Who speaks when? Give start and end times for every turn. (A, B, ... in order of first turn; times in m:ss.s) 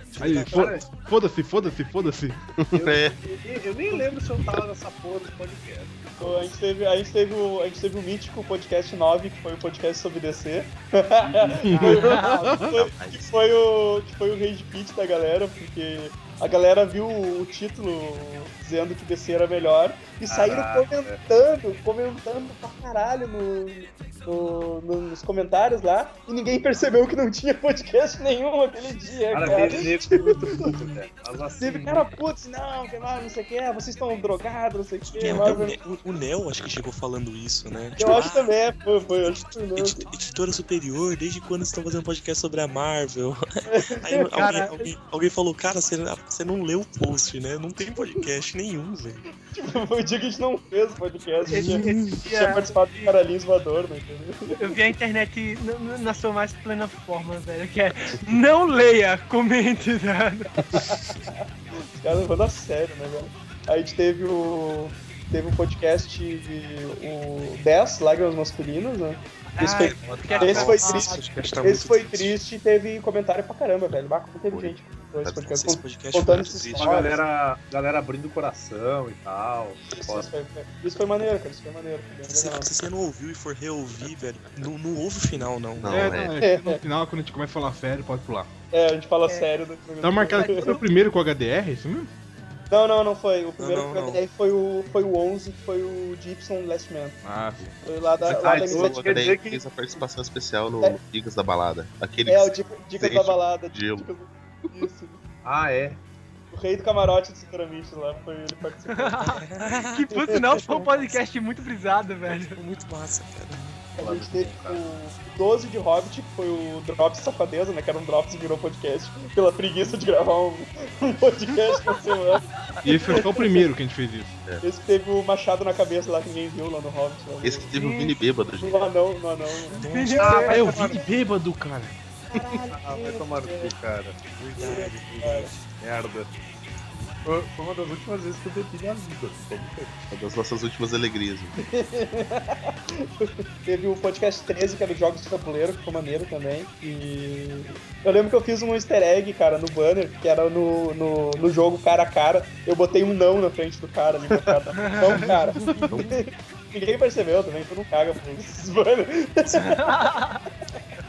0:00.1-0:00.8 A
0:00.2-0:02.4 B
0:00.5-0:00.9 C
0:02.6-0:03.2 D
0:02.7-0:06.6 C
0:06.2-0:30.7 E
0:11.2-0:11.6 C
0:11.6-0:12.7 B
0:12.0-0:12.3 F
0:12.6-0:13.5 D
0:20.3-0:21.2 C
0:29.3-0:32.1 C
0:29.4-0:29.9 A
0:31.6-0:35.8 E
0:35.2-0:38.5 A
0:38.0-0:40.0 E
0:39.2-0:49.2 A
0:43.7-0:44.7 E
0:44.3-0:44.8 F
0:49.5-0:54.6 E
0:51.5-0:53.1 F
0:51.5-0:52.2 A
0:54.6-1:00.5 F
1:01.9-1:17.2 E
1:09.6-1:12.3 A
1:09.7-1:11.3 F
1:10.0-1:10.8 C
1:14.5-1:14.8 D
1:15.2-1:17.1 A
1:16.8-1:20.3 C
1:19.9-1:22.7 E
1:22.3-1:26.2 A
1:25.8-1:26.4 D
1:25.9-1:28.5 B
1:26.4-1:26.8 E
1:28.7-1:30.8 E
1:30.0-1:32.1 B
1:30.3-1:30.8 F
1:32.7-1:37.2 E
1:33.6-1:34.2 A
1:37.2-1:37.8 B
1:37.8-1:39.3 E
1:38.2-1:44.1 D
1:38.2-1:39.6 C
1:42.3-1:45.2 E
1:45.4-1:46.0 C
1:46.5-1:49.4 E
1:48.9-1:52.6 F
1:49.4-1:51.2 A
1:50.1-1:50.6 E
1:52.3-1:53.8 A
1:54.0-2:02.5 E
1:54.0-1:54.8 C
2:02.8-2:04.4 B
2:03.1-2:03.6 E
2:04.6-2:07.8 E
2:07.4-2:08.9 D
2:07.7-2:08.1 F
2:08.6-2:11.1 E
2:09.8-2:10.6 A
2:09.8-2:11.0 F
2:10.2-2:11.5 C
2:10.6-2:11.9 B
2:12.3-2:13.8 E
2:12.7-2:16.3 C
2:14.4-2:15.1 A
2:14.6-2:15.5 E
2:17.3-2:20.0 C
2:20.1-2:21.6 D
2:21.6-2:40.0 E
2:34.3-2:34.6 C
2:34.8-2:35.3 F
2:35.9-2:36.2 D
2:39.8-2:40.4 F